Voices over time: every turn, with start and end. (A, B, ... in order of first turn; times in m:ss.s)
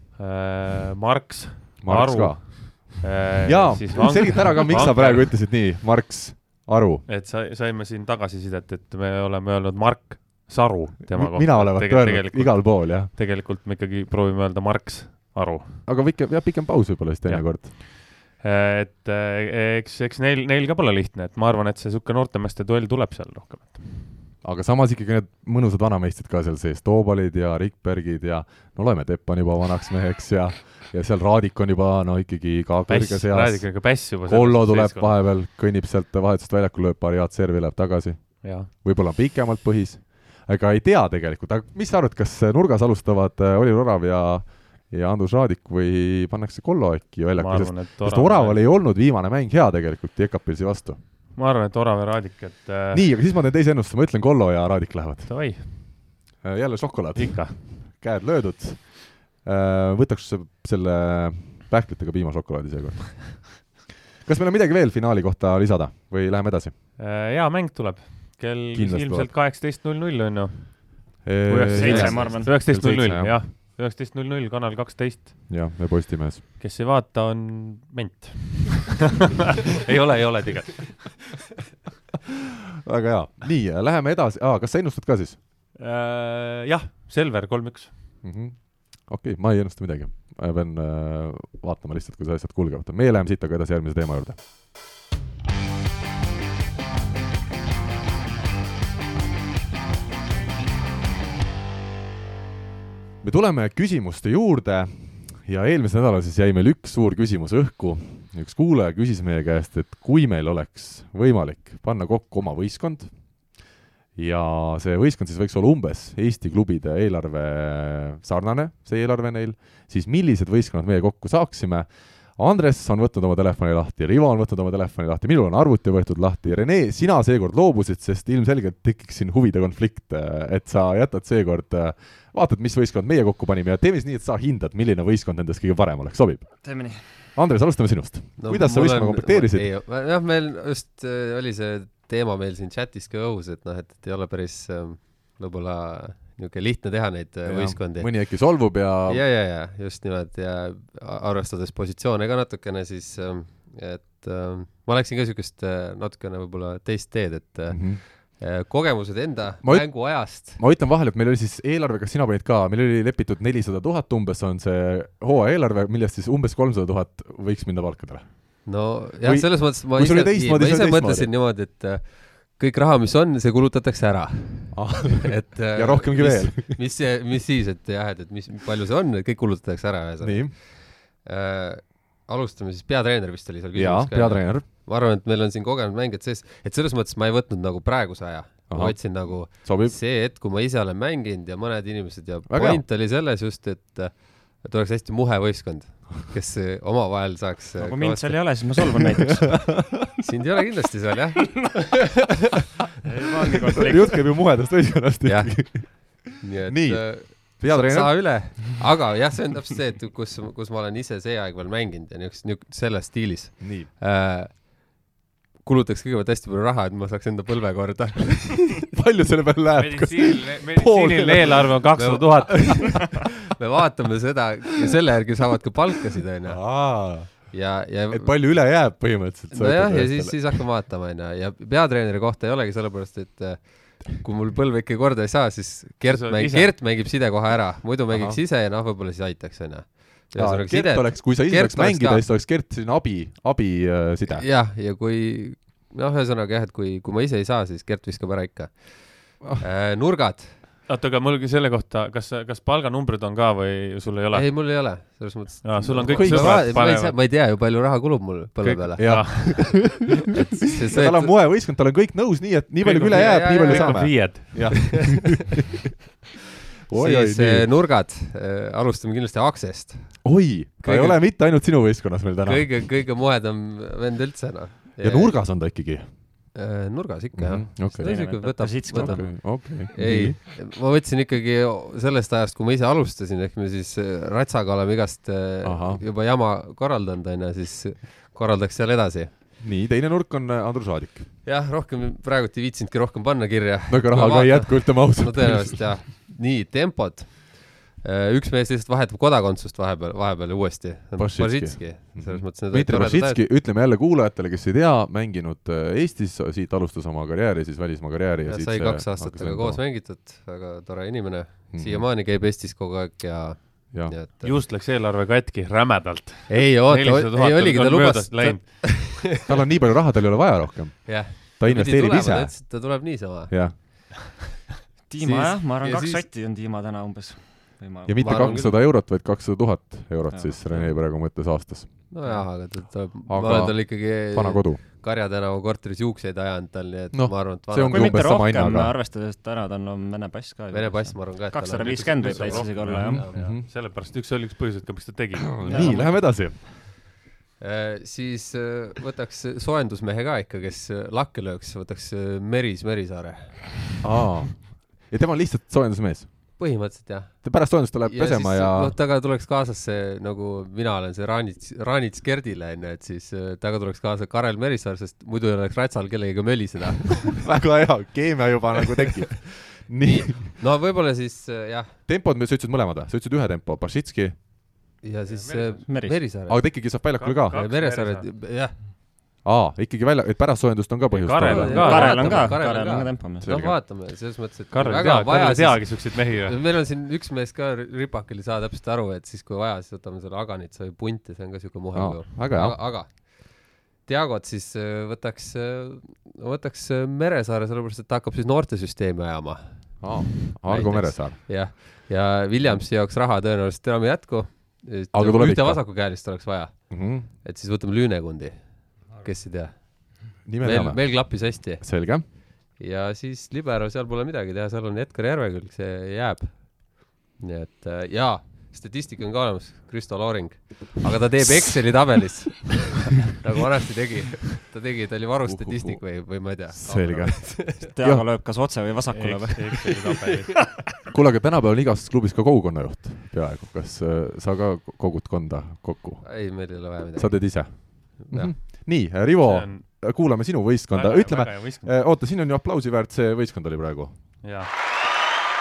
0:00.2-0:05.4 A
0:01.8-0:07.0 B
0:07.0-0:15.8 A
0:11.1-0:13.1 B
0:15.9-0:17.7 B
0:17.2-0:24.2 A
0:24.4-0:51.0 B
0:32.9-0:35.2 A
0:38.4-0:38.7 A
0:47.4-0:48.6 A
0:51.3-0:53.0 A
0:52.9-0:55.9 B
0:55.2-0:55.9 A
0:56.4-1:03.7 B
0:57.2-0:57.6 A
1:04.2-1:06.7 B
1:07.0-1:15.6 A
1:08.7-1:09.3 B
1:11.2-1:13.5 B
1:11.7-1:12.5 C
1:15.5-1:16.4 B
1:16.6-1:18.9 A
1:19.8-1:21.4 A
1:22.9-1:25.4 B
1:25.8-1:27.9 A
1:28.2-1:34.4 B
1:43.2-2:19.7 B
2:16.6-2:17.0 C
2:18.4-2:40.6 D
2:27.4-2:29.2 B
2:37.7-2:38.0 B
2:39.6-2:51.3 B
2:48.6-3:18.6 D
2:54.7-2:56.8 B
3:00.2-3:00.6 B
3:03.7-3:04.7 B
3:08.7-3:10.0 B
3:12.5-3:12.8 B
3:17.8-3:19.8 C
3:20.2-3:21.9 D
3:23.0-3:24.1 C
3:23.8-3:28.7 B
3:25.2-3:35.0 D
3:33.6-3:33.9 B
3:35.6-3:38.8 D
3:39.0-3:41.8 B
3:39.8-3:43.1 A
3:41.9-3:48.9 D
3:46.5-3:50.6 B
3:49.5-4:02.2 D
3:56.0-3:56.8 A
3:58.1-3:58.4 B
4:00.3-4:04.4 B
4:04.2-4:10.6 D
4:10.9-4:17.2 A
4:14.3-4:19.7 D
4:16.1-4:16.9 B
4:18.6-4:20.1 A
4:19.0-4:20.0 B
4:20.3-4:21.4 D
4:20.9-4:25.6 B
4:22.8-4:25.3 A
4:23.1-4:25.1 D
4:26.9-4:27.7 B
4:26.9-4:31.2 D
4:30.2-4:32.8 B
4:32.4-4:35.9 D
4:35.0-4:36.5 B
4:36.5-4:49.3 D
4:37.3-4:40.4 B
4:38.0-4:39.3 C
4:45.6-4:46.0 B
4:49.6-4:51.3 B
4:51.4-5:03.4 D
4:53.9-4:56.0 B
5:01.2-5:09.8 B
5:08.5-5:14.4 D
5:11.7-5:12.0 B
5:13.9-5:14.6 B
5:14.4-5:19.0 A
5:16.5-5:19.4 D
5:19.4-5:24.4 B
5:21.0-5:24.0 D
5:25.1-5:28.6 C
5:25.2-5:26.2 D
5:28.0-5:32.7 B
5:28.2-5:28.8 D
5:30.3-5:30.9 C
5:32.1-5:38.4 D
5:33.2-5:34.8 B
5:37.1-5:38.9 B
5:37.8-5:43.2 C
5:40.7-5:43.4 D
5:41.8-5:46.0 A
5:42.8-5:43.6 B
5:45.6-5:46.7 B
5:45.6-5:46.4 C
5:47.6-5:54.0 D
5:54.0-5:56.9 B
5:56.6-6:07.6 D
5:57.4-5:58.9 B
6:07.4-6:10.6 B
6:10.0-6:12.0 D
6:12.0-6:14.5 B
6:15.0-6:16.9 D
6:15.2-6:15.9 A
6:15.9-6:16.2 C
6:16.5-6:17.6 B
6:17.2-6:18.3 A
6:17.5-6:18.8 D
6:19.4-6:23.8 B
6:21.1-6:22.6 A
6:21.5-7:07.9 D
6:21.7-6:23.4 C
6:24.7-6:26.6 A
6:31.9-6:33.0 B
6:40.0-6:41.8 B
6:45.1-6:47.3 B
6:50.4-6:52.2 B
7:01.4-7:01.7 B
7:05.4-7:08.3 B
7:07.8-7:10.0 C
7:09.1-7:10.6 A
7:11.1-7:24.5 B
7:16.2-7:18.5 D
7:19.4-7:20.3 A
7:20.9-7:21.9 A
7:24.4-7:24.7 A